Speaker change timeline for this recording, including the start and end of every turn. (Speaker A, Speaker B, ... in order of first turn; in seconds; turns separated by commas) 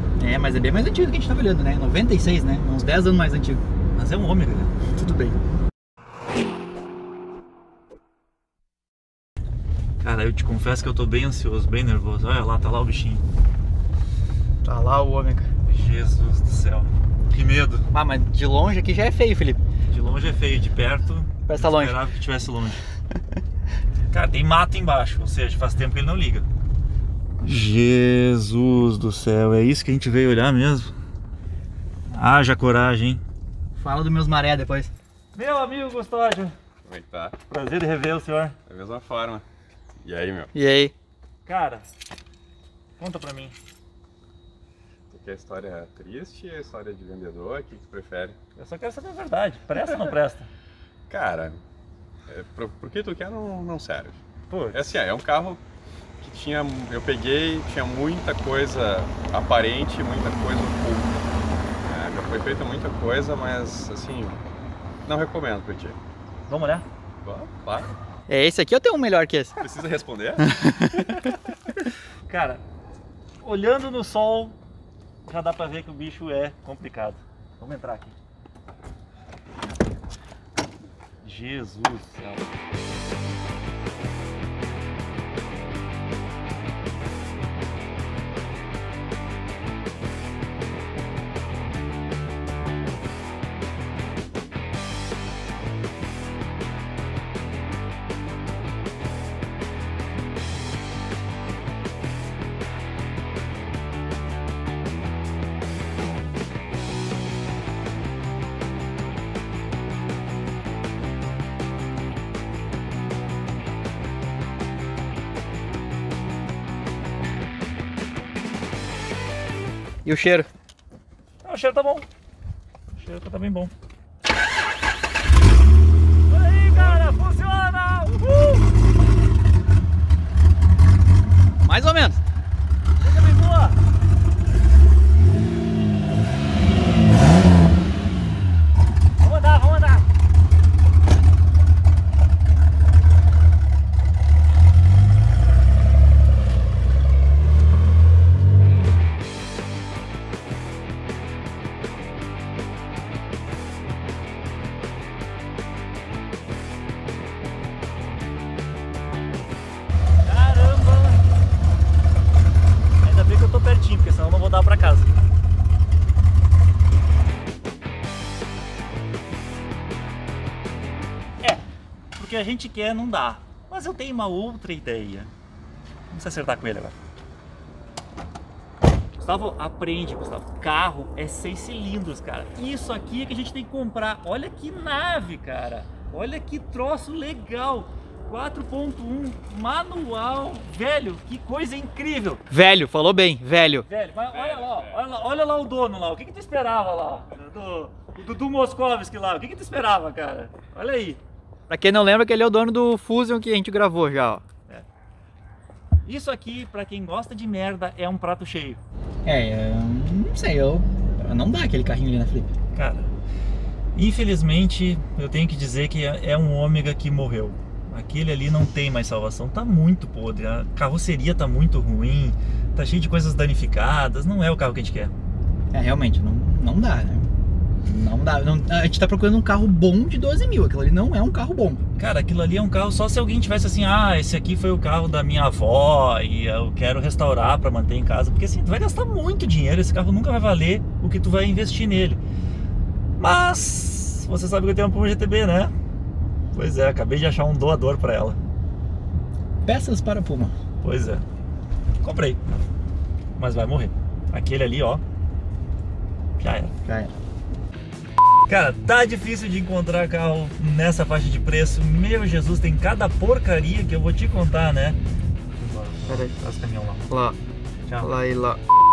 Speaker A: 0.2-3.6, Speaker B: 4.0-4.8, Speaker A: 4.9-5.4, Speaker B: 10.0-13.2, Speaker A: 14.6-15.5, Speaker B: 15.7-17.9, Speaker A: 17.9-19.6, Speaker B: 19.9-22.8, Speaker A: 21.5-22.0, Speaker B: 24.1-26.4, Speaker B: 27.4-30.9, Speaker B: 32.1-33.2, Speaker A: 33.8-34.9, Speaker B: 35.3-36.5, Speaker C: 36.9-37.4, Speaker B: 37.5-38.6, Speaker C: 38.7-39.5, Speaker C: 40.0-40.5, Speaker A: 40.5-40.9, Speaker B: 41.5-41.9, Speaker B: 43.0-43.5, Speaker C: 45.1-48.4, Speaker B: 48.6-50.5, Speaker C: 51.1-51.6, Speaker C: 52.3-54.2, Speaker B: 54.5-54.8, Speaker C: 54.7-55.6, Speaker C: 56.2-61.2, Speaker C: 61.9-64.4, Speaker C: 65.1-66.0, Speaker B: 66.5-66.8, Speaker C: 67.2-67.9, Speaker A: 68.3-69.6, Speaker C: 69.6-70.5, Speaker A: 70.4-71.3, Speaker B: 72.3-72.6, Speaker B: 73.4-74.6, Speaker B: 75.3-78.2, Speaker B: 81.2-82.5, Speaker A: 120.0-120.5, Speaker B: 121.4-122.1, Speaker B: 122.9-123.7, Speaker B: 126.3-128.7, Speaker A: 131.6-132.2, Speaker B: 133.0-133.8, Speaker B: 139.2-140.1, Speaker B: 160.2-161.2, Speaker B: 163.0-165.2, Speaker B: 172.2-175.3, Speaker B: 176.1-176.9, Speaker B: 179.2-192.4, Speaker A: 192.5-193.9, Speaker B: 193.8-201.2, Speaker C: 194.3-195.0, Speaker A: 201.7-204.4, Speaker B: 206.0-208.8, Speaker A: 209.2-212.5, Speaker B: 212.7-213.1, Speaker B: 213.9-225.1, Speaker A: 225.7-227.3, Speaker A: 227.8-231.8, Speaker B: 232.0-242.2, Speaker B: 243.2-245.7, Speaker B: 246.5-248.4, Speaker A: 249.7-250.5, Speaker B: 250.8-251.2, Speaker B: 252.0-252.4, Speaker B: 253.4-255.0, Speaker B: 256.4-256.7, Speaker A: 256.9-257.1, Speaker B: 258.5-265.0, Speaker B: 265.6-267.1, Speaker A: 266.1-266.4, Speaker A: 267.1-267.4, Speaker B: 267.9-268.1, Speaker A: 268.0-268.6